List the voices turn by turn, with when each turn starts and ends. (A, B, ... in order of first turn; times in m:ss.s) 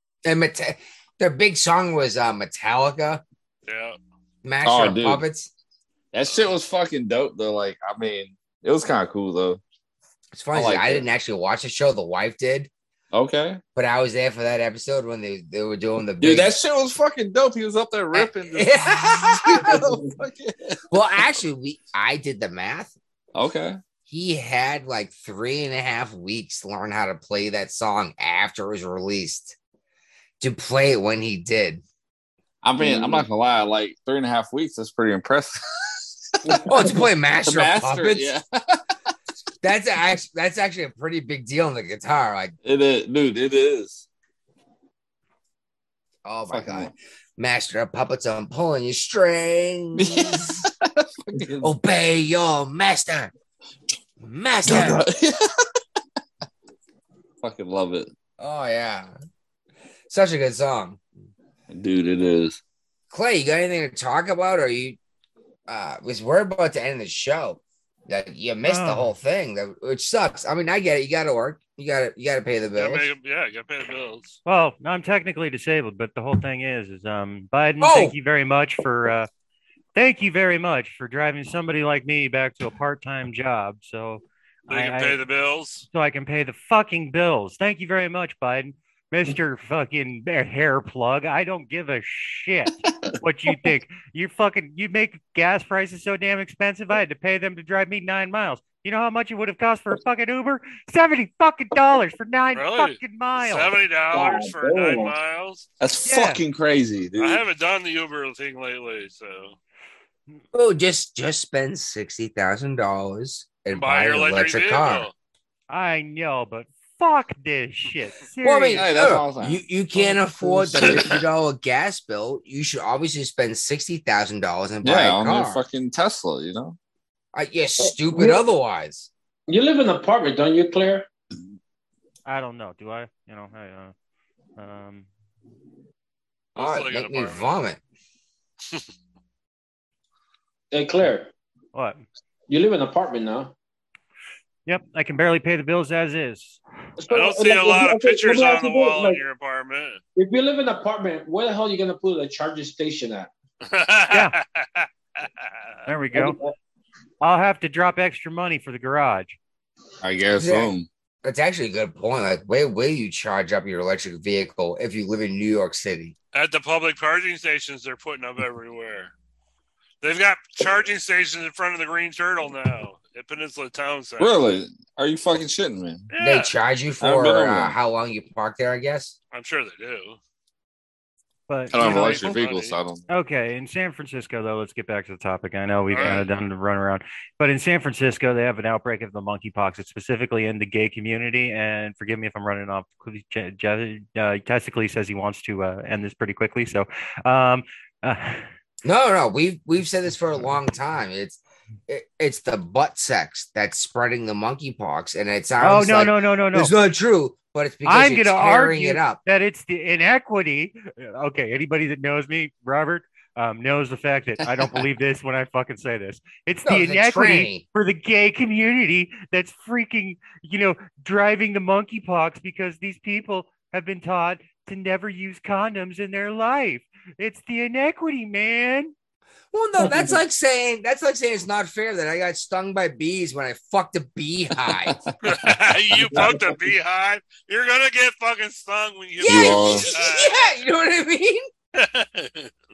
0:00.2-0:03.2 A
0:03.7-0:04.0 B
0:04.4-0:05.5 A
0:04.6-0:05.2 C
0:06.1-0:09.6 C
0:10.3-0:12.7 A
0:10.5-0:11.0 C
0:13.1-0:13.6 C
0:13.8-0:16.5 A
0:16.2-0:20.8 C
0:18.1-0:19.8 A
0:20.9-0:23.0 A
0:23.4-0:23.8 C
0:24.1-0:29.6 A
0:30.4-0:31.8 A
0:32.6-0:36.9 C
0:32.8-0:33.2 D
0:36.7-0:38.3 A
0:37.4-0:38.8 C
0:39.6-0:42.6 A
0:42.6-0:44.0 C
0:46.2-0:50.6 A
0:46.5-0:46.9 C
0:50.0-0:51.7 C
0:51.6-0:53.3 A
0:54.2-0:55.0 A
0:54.7-0:55.4 C
0:57.4-0:58.1 C
0:58.4-0:59.1 A
1:00.1-1:01.0 A
1:01.7-1:02.6 C
1:03.1-1:05.0 A
1:05.7-1:13.1 A
1:08.6-1:09.1 E
1:12.8-1:14.4 B
1:14.5-1:19.3 E
1:17.8-1:18.2 A
1:20.0-1:25.2 E
1:24.7-1:25.9 B
1:25.9-1:43.8 E
1:42.5-1:45.7 B
1:44.1-1:45.1 D
1:45.8-1:47.4 C
1:46.0-1:46.4 E
1:47.2-1:49.6 B
1:50.5-1:55.1 A
1:53.7-1:55.1 B
1:55.7-1:59.2 E
1:58.4-2:05.6 A
1:58.7-1:59.6 C
2:00.4-2:00.8 D
2:04.8-2:06.8 C
2:07.3-2:09.1 A
2:07.8-2:08.4 D
2:09.5-2:11.1 D
2:12.3-2:13.9 E
2:14.6-2:15.1 E
2:16.6-2:17.6 B
2:16.6-2:17.8 A
2:20.7-2:21.3 D
2:21.7-2:22.0 E
2:22.5-2:23.5 D
2:24.7-2:26.6 E
2:27.0-2:29.2 D
2:27.1-2:30.0 B
2:30.2-2:33.3 D
2:33.7-2:34.9 B
2:35.9-2:36.4 E
2:36.1-2:36.5 D
2:37.2-2:39.4 E
2:40.0-2:40.9 C
2:40.4-2:40.7 A
2:41.2-2:46.2 A
2:46.3-2:49.1 B
2:50.0-2:54.3 B
2:54.2-2:56.1 C
2:56.1-2:56.5 B
2:56.2-2:59.2 A
2:57.0-2:57.8 C
2:59.3-3:00.2 B
3:01.5-3:02.4 E
3:01.7-3:03.0 C
3:01.7-3:02.8 B
3:03.1-3:18.5 E
3:05.9-3:06.3 B
3:18.8-3:29.2 A
3:25.6-3:26.7 E
3:27.8-3:48.9 E
3:36.6-3:37.6 A
3:49.5-3:55.0 A
3:55.2-4:00.4 B
3:59.2-4:01.5 A
3:59.3-3:59.9 C
4:01.8-4:02.5 B